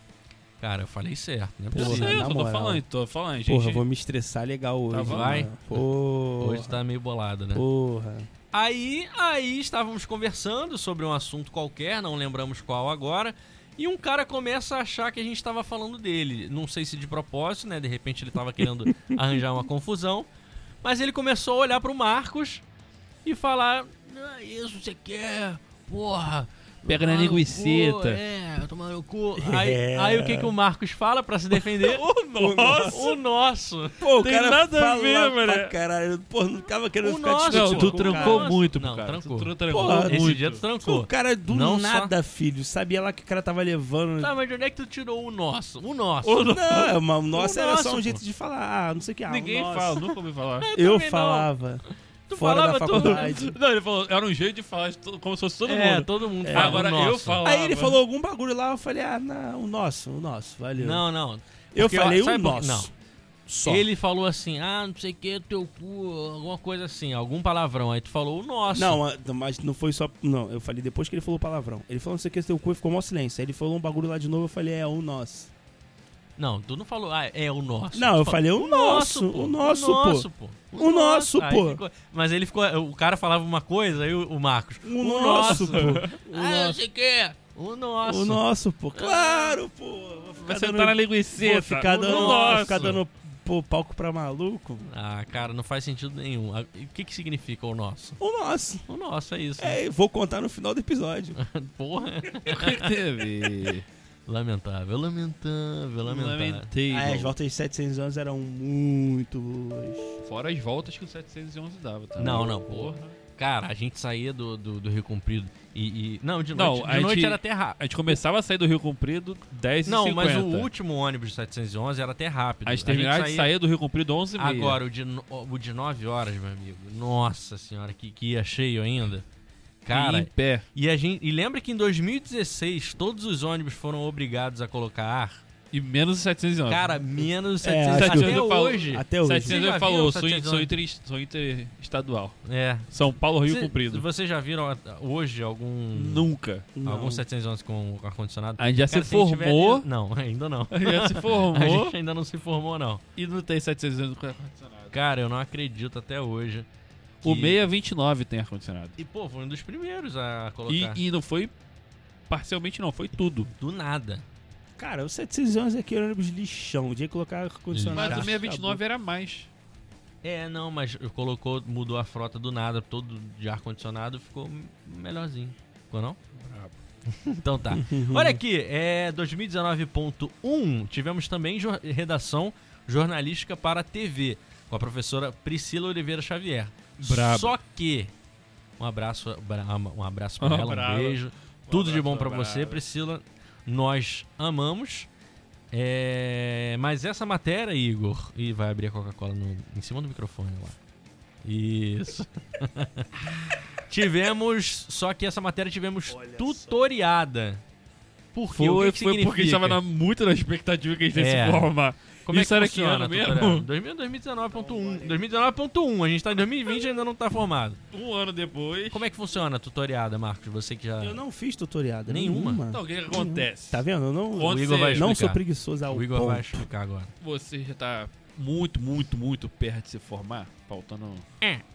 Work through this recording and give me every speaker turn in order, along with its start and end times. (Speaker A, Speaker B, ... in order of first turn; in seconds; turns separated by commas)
Speaker A: 0.6-2.2, Speaker B: 1.7-3.8, Speaker C: 1.7-2.8, Speaker C: 3.4-6.8, Speaker B: 4.9-5.5, Speaker A: 5.0-5.8, Speaker A: 6.4-7.6, Speaker C: 7.5-8.3, Speaker A: 8.5-20.3, Speaker A: 20.8-22.6, Speaker A: 23.2-32.0, Speaker B: 26.8-28.2, Speaker C: 29.4-30.5, Speaker B: 31.5-33.2, Speaker C: 32.4-33.1, Speaker A: 32.9-34.0, Speaker C: 34.0-38.5, Speaker B: 34.1-35.7, Speaker A: 37.0-42.1, Speaker B: 37.5-40.6, Speaker C: 39.7-44.3, Speaker A: 44.2-46.5, Speaker B: 46.2-47.0, Speaker C: 46.5-50.0, Speaker A: 47.3-48.2, Speaker B: 49.2-50.6, Speaker A: 50.6-51.5, Speaker C: 50.7-51.8, Speaker A: 52.3-53.5, Speaker C: 52.3-53.5, Speaker B: 52.9-58.0, Speaker A: 55.6-57.5, Speaker C: 56.4-61.0, Speaker A: 60.7-62.9, Speaker C: 61.7-62.9, Speaker C: 63.5-63.9, Speaker A: 63.6-69.0, Speaker C: 68.7-75.5, Speaker A: 76.4-88.4, Speaker C: 77.9-81.8, Speaker C: 84.8-86.8, Speaker B: 85.3-86.1, Speaker C: 88.0-94.8, Speaker A: 88.9-89.6, Speaker B: 90.4-93.0, Speaker A: 92.1-93.0, Speaker A: 94.8-98.2, Speaker C: 98.2-98.8, Speaker A: 98.9-99.8, Speaker C: 99.6-101.4, Speaker A: 101.3-102.9, Speaker B: 102.5-103.8, Speaker A: 104.3-106.7, Speaker B: 106.0-107.3, Speaker C: 106.9-110.2, Speaker B: 110.2-113.1, Speaker A: 112.2-118.1, Speaker B: 116.5-120.7, Speaker A: 119.8-123.5, Speaker B: 122.6-124.8, Speaker A: 124.3-129.2, Speaker A: 129.8-135.4, Speaker B: 129.9-130.6, Speaker B: 135.7-137.0, Speaker A: 136.7-140.7, Speaker C: 137.6-139.6, Speaker B: 137.9-142.4, Speaker A: 142.4-142.9, Speaker B: 142.9-144.0, Speaker A: 143.4-146.3, Speaker B: 145.9-146.7, Speaker C: 146.7-147.2, Speaker A: 146.8-153.0, Speaker B: 148.6-149.8, Speaker B: 150.7-151.9, Speaker B: 153.1-154.9, Speaker A: 154.9-156.7, Speaker A: 157.2-157.6, Speaker B: 157.2-158.9, Speaker A: 159.0-161.0, Speaker B: 160.7-161.5, Speaker B: 162.3-163.5, Speaker A: 163.6-164.2, Speaker C: 164.8-168.8, Speaker A: 167.7-168.4, Speaker B: 167.9-169.5, Speaker A: 170.2-176.2, Speaker B: 176.4-176.7, Speaker A: 177.1-188.1, Speaker C: 177.7-178.4, Speaker B: 187.0-187.6, Speaker A: 188.8-195.1, Speaker B: 190.4-192.8, Speaker A: 195.7-200.8, Speaker A: 201.4-207.6, Speaker C: 206.1-206.9, Speaker A: 208.3-209.8, Speaker B: 208.5-213.7, Speaker A: 211.1-211.7, Speaker A: 212.2-217.8, Speaker C: 214.5-215.3, Speaker B: 217.9-219.1, Speaker A: 218.9-221.2, Speaker C: 221.0-226.6, Speaker A: 222.1-222.6, Speaker B: 222.7-225.2, Speaker A: 224.4-227.1, Speaker B: 227.2-231.2